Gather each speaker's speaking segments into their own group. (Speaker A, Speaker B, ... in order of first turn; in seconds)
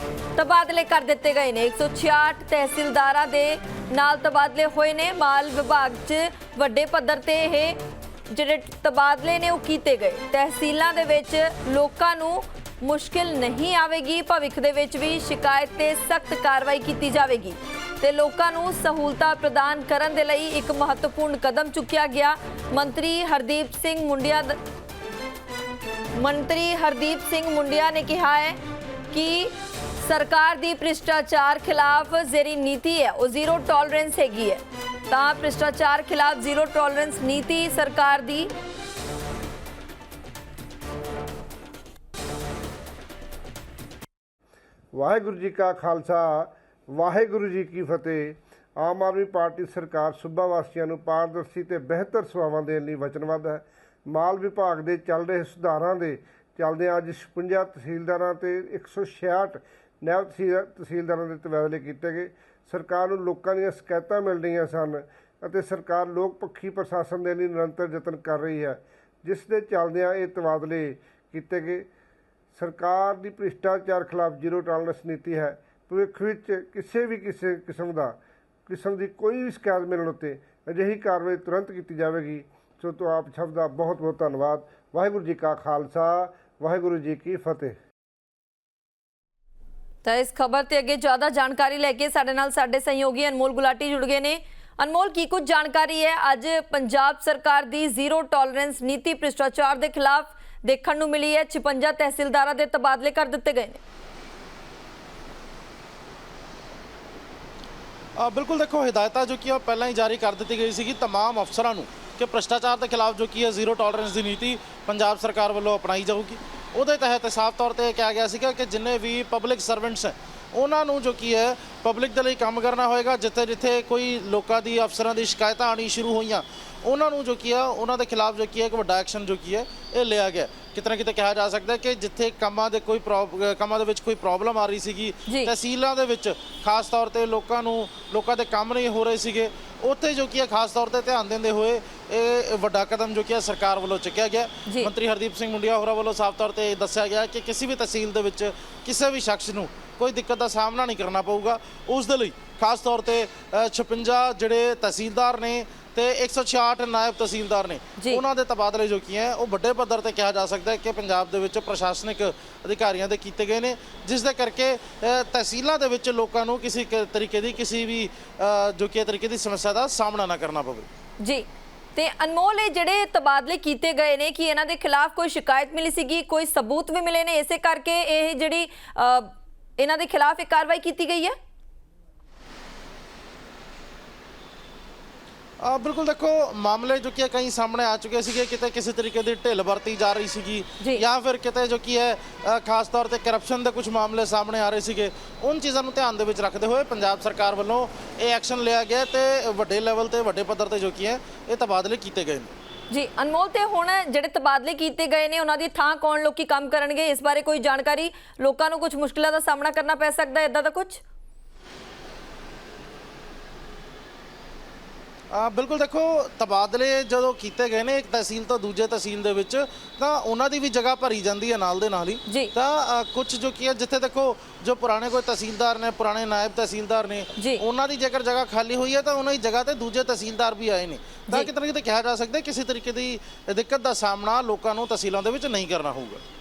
Speaker A: 0.3-7.8, 8.3-24.6, 26.1-28.6, 29.1-38.5, 90.0-103.8, 144.7-144.9, 171.2-181.3, 202.9-211.0, 222.2-222.5, 227.4-227.6
Speaker B: 44.9-71.9, 72.5-87.8
Speaker C: 108.2-170.9, 185.6-202.6, 215.3-236.2